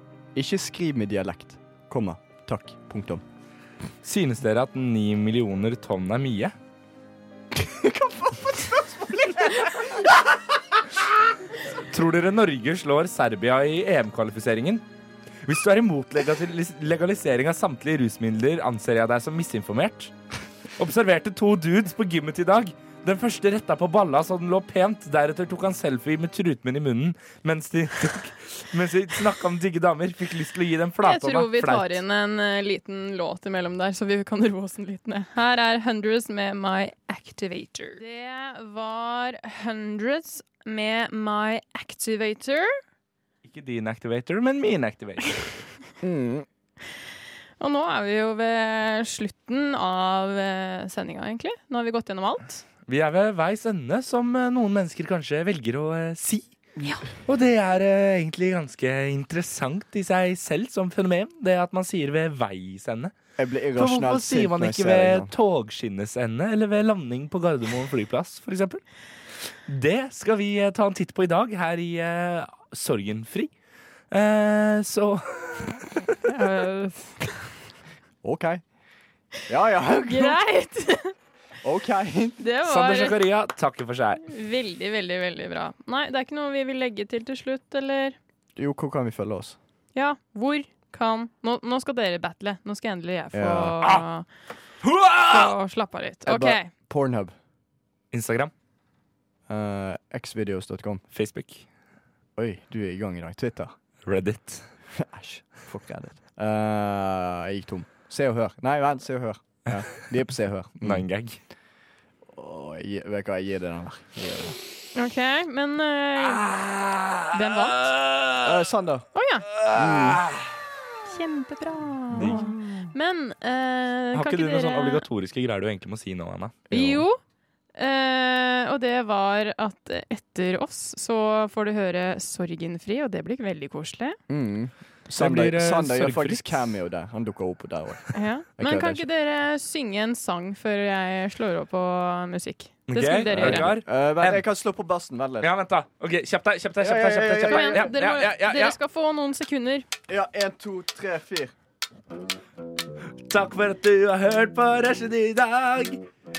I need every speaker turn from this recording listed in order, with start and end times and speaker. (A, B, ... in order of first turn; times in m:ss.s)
0:00.3-0:03.2 A
0:04.0-0:06.5 B
0:07.5-0:10.3 A
0:11.7-0:14.8 B
0:15.4-0:20.1 B
0:20.8-0:32.0 B
0:31.0-0:42.7 C
0:43.4-0:45.7 B
0:46.0-0:46.4 A
0:47.6-0:52.6 C
0:52.9-0:56.5 B
0:57.2-1:03.1 B
1:03.4-1:05.3 A
1:03.8-1:08.8 B
1:09.4-1:13.5 B
1:14.1-1:15.9 B
1:16.2-1:17.3 C
1:18.2-1:18.6 A
1:19.5-1:20.4 A
1:20.1-1:21.1 C
1:21.6-1:22.4 A
1:22.4-1:23.2 C
1:22.6-1:24.2 B
1:24.2-1:28.2 C
1:28.6-1:29.6 A
1:29.9-1:34.3 C
1:33.3-1:33.8 A
1:34.8-1:35.5 B
1:35.2-1:36.7 C
1:36.2-1:37.3 A
1:38.1-1:38.5 B
1:39.5-1:41.0 A
1:41.1-1:41.7 B
1:42.4-1:43.7 A
1:44.0-1:44.6 B
1:44.9-1:51.1 A
1:50.8-1:51.4 B
1:52.3-1:54.6 A
1:54.9-1:56.4 C
1:56.3-1:58.6 B
1:57.3-1:57.9 C
1:58.4-1:59.1 A
1:59.1-1:59.5 C
1:59.6-2:00.5 B
1:59.7-2:00.2 A
2:01.0-2:05.0 C
2:02.1-2:02.6 B
2:02.2-2:02.8 A
2:04.1-2:06.7 B
2:06.7-2:07.0 A
2:06.7-2:07.2 C
2:07.8-2:14.2 C
2:14.3-2:19.0 A
2:15.2-2:16.7 B
2:18.1-2:23.7 C
2:22.9-2:24.4 B
2:23.3-2:25.5 A
2:25.4-2:28.8 B
2:26.8-2:27.9 A
2:27.4-2:29.8 C
2:30.1-2:31.5 A
2:33.3-2:36.0 B